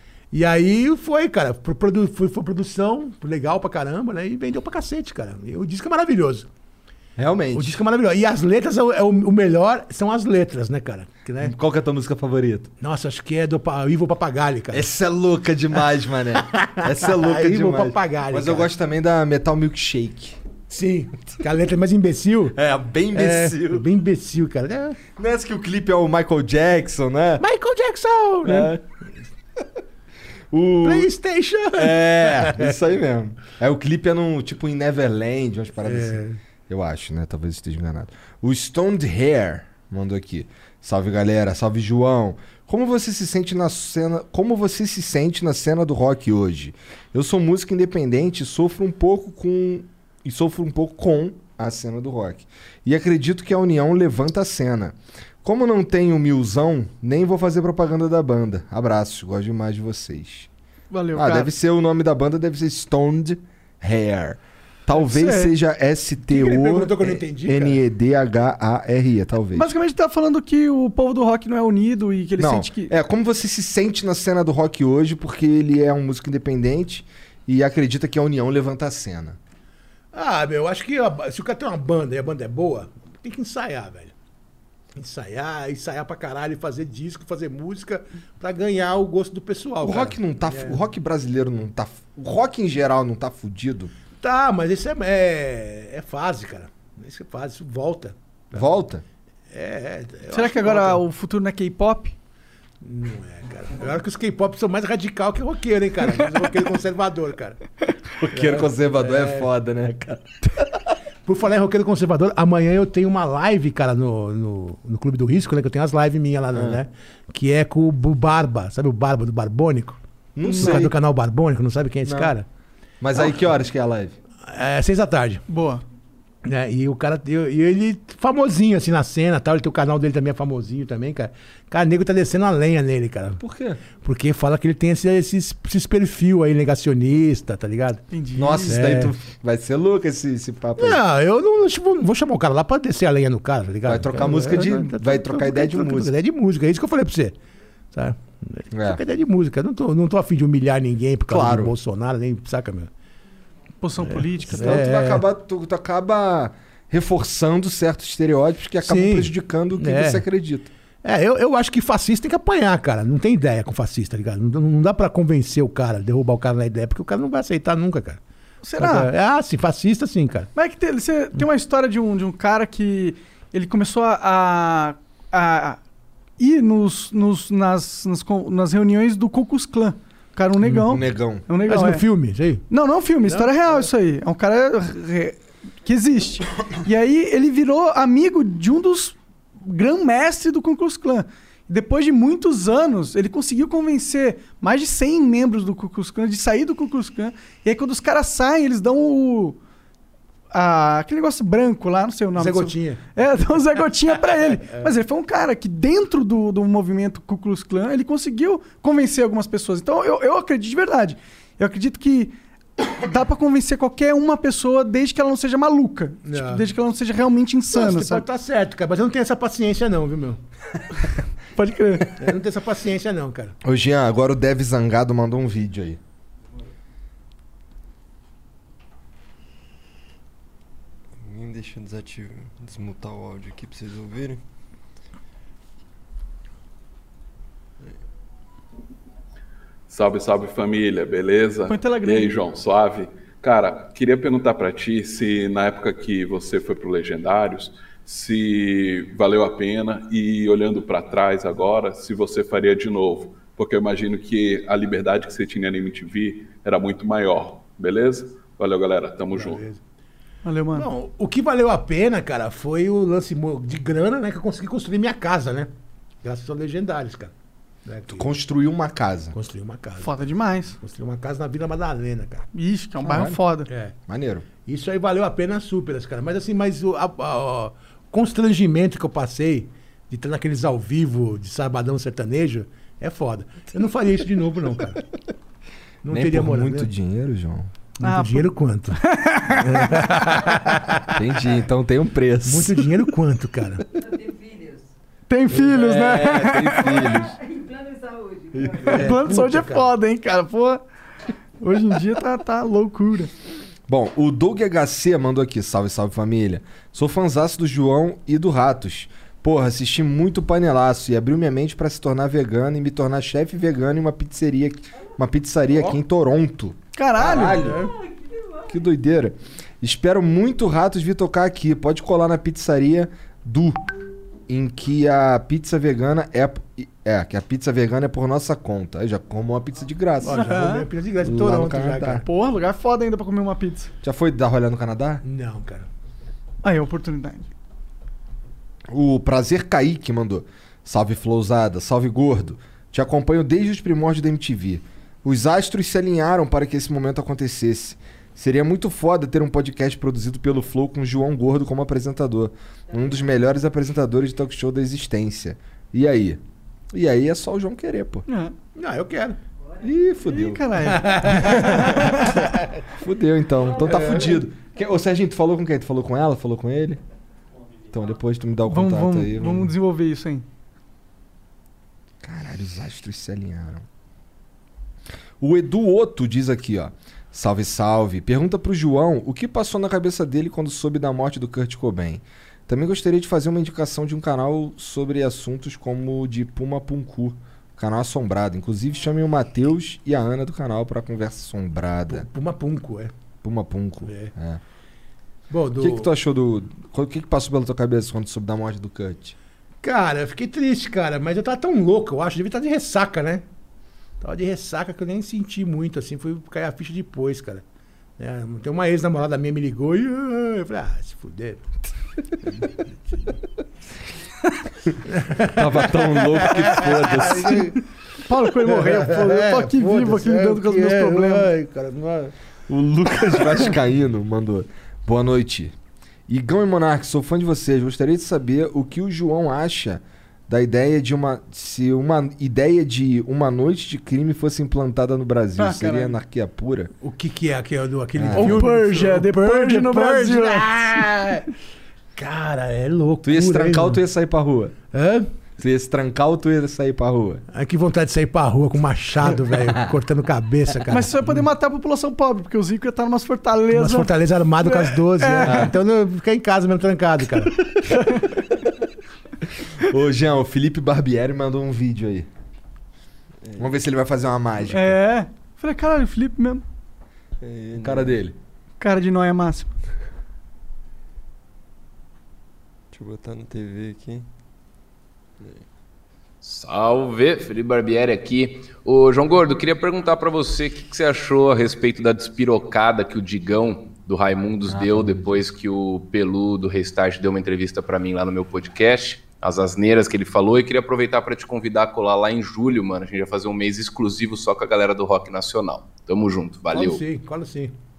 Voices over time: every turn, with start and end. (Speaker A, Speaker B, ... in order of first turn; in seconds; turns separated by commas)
Speaker A: 0.3-6.5, Speaker B: 7.2-7.8, Speaker A: 7.5-11.5, Speaker B: 11.4-12.7, Speaker A: 12.8-14.9, Speaker B: 14.7-20.4, Speaker A: 16.4-18.7, Speaker A: 20.7-22.6, Speaker B: 22.5-23.9, Speaker A: 23.1-25.0, Speaker B: 25.1-27.4, Speaker A: 27.4-28.8, Speaker B: 28.4-28.8, Speaker B: 30.5-31.1, Speaker A: 30.8-32.8, Speaker B: 31.7-60.5, Speaker A: 35.8-36.4, Speaker C: 60.9-61.5, Speaker B: 61.1-69.7, Speaker C: 65.0-65.5, Speaker A: 66.3-67.8, Speaker C: 69.5-72.9, Speaker B: 72.4-79.4, Speaker A: 80.1-84.1, Speaker A: 84.9-90.8, Speaker B: 89.8-93.9, Speaker A: 94.2-98.7, Speaker B: 98.5-99.0, Speaker A: 99.5-101.0, Speaker C: 100.3-102.1, Speaker A: 102.8-107.6, Speaker B: 108.2-110.7, Speaker A: 108.3-109.5, Speaker A: 111.2-120.0, Speaker B: 116.5-116.8, Speaker B: 120.3-120.9, Speaker C: 120.4-120.8, Speaker A: 120.5-122.5, Speaker B: 122.0-122.3, Speaker B: 123.0-124.1, Speaker A: 124.4-125.4, Speaker C: 125.5-125.8, Speaker A: 126.4-138.0, Speaker B: 133.4-133.8, Speaker C: 138.1-138.8, Speaker B: 138.3-141.0, Speaker A: 138.7-139.1, Speaker A: 140.8-147.3, Speaker B: 143.8-146.1, Speaker A: 147.9-152.9, Speaker B: 148.7-149.0, Speaker B: 151.3-151.7, Speaker C: 153.8-154.8, Speaker A: 154.0-155.2, Speaker B: 154.5-160.7, Speaker A: 158.8-160.2, Speaker A: 161.0-168.2, Speaker C: 168.6-169.1, Speaker A: 168.8-170.5, Speaker C: 170.5-175.8, Speaker C: 176.4-182.0, Speaker B: 180.6-181.4, Speaker A: 181.7-182.6, Speaker C: 182.7-199.6, Speaker A: 183.2-183.8, Speaker C: 200.5-218.2, Speaker A: 202.3-203.0, Speaker A: 204.6-204.9, Speaker A: 216.2-216.7, Speaker A: 217.7-220.4, Speaker C: 221.5-222.1, Speaker A: 222.2-223.5, Speaker B: 223.6-226.0, Speaker D: 231.2-234.4, Speaker E: 239.9-259.6, Speaker C: 241.7-242.3, Speaker A: 259.3-259.8, Speaker C: 260.4-260.9, Speaker A: 260.7-265.7, Speaker A: 266.2-267.3, Speaker A: 267.8-268.3, Speaker B: 268.1-269.3, Speaker A: 269.3-270.1, Speaker C: 270.0-270.8, Speaker A: 270.8-272.5, Speaker C: 272.5-273.7, Speaker B: 273.0-273.4, Speaker A: 273.7-273.9, Speaker B: 274.1-274.4, Speaker A: 274.6-285.0, Speaker A: 286.0-286.9, Speaker B: 286.1-287.7, Speaker A: 288.0-289.0, Speaker C: 288.0-290.0, Speaker A: 289.6-291.2, Speaker B: 289.6-289.9, Speaker B: 291.1-292.9, Speaker A: 292.4-293.8, Speaker F: 293.9-294.9, Speaker C: 295.3-296.9, Speaker B: 295.5-297.3, Speaker F: 296.7-299.1, Speaker B: 298.6-298.8, Speaker A: 298.9-299.9, Speaker C: 298.9-300.8, Speaker C: 301.6-303.3, Speaker B: 303.9-317.9, Speaker C: 316.9-317.6, Speaker A: 317.6-317.9, Speaker F: 317.6-318.9, Speaker B: 318.7-323.8, Speaker B: 324.5-330.6, Speaker A: 330.2-332.2, Speaker C: 330.2-330.9, Speaker B: 331.2-332.2, Speaker C: 332.2-333.9, Speaker B: 334.0-335.2, Speaker A: 335.2-335.9, Speaker C: 336.6-337.5, Speaker B: 338.9-356.4, Speaker F: 352.9-353.2, Speaker B: 356.9-358.2, Speaker C: 358.3-358.5, Speaker A: 358.7-359.4, Speaker B: 359.8-362.2, Speaker C: 360.3-362.4, Speaker A: 360.8-361.7, Speaker B: 363.0-367.0, Speaker F: 363.7-364.4, Speaker A: 363.8-364.3, Speaker B: 367.9-369.7, Speaker C: 368.7-370.4, Speaker B: 372.2-373.8, Speaker B: 375.4-392.3, Speaker A: 392.1-393.1, Speaker B: 393.4-394.6, Speaker A: 394.1-394.3, Speaker A: 395.5-396.1, Speaker B: 395.8-399.4, Speaker A: 399.8-403.4, Speaker A: 404.2-407.6, Speaker A: 408.2-411.7, Speaker A: 412.6-413.3, Speaker A: 415.0-417.8, Speaker B: 415.4-417.7, Speaker C: 418.2-421.5, Speaker A: 418.6-422.3, Speaker B: 422.7-425.7, Speaker B: 426.3-436.9, Speaker C: 435.6-436.1, Speaker A: 437.0-441.5, Speaker B: 438.2-438.6, Speaker C: 438.3-440.7, Speaker A: 442.1-444.0, Speaker B: 443.2-444.8, Speaker A: 444.9-445.3, Speaker B: 445.6-447.4, Speaker A: 447.5-451.4, Speaker C: 450.9-455.7, Speaker A: 453.7-457.5, Speaker B: 455.4-455.7, Speaker C: 457.9-458.2, Speaker B: 459.8-462.3, Speaker D: 463.4-463.7, Speaker B: 463.6-465.0, Speaker C: 464.7-466.6, Speaker D: 467.4-468.2, Speaker B: 467.8-468.4, Speaker C: 468.8-469.7, Speaker D: 472.9-474.3, Speaker D: 475.4-475.6, Speaker G: 476.4-497.0, Speaker B: 484.7-485.3, Speaker A: 496.7-497.7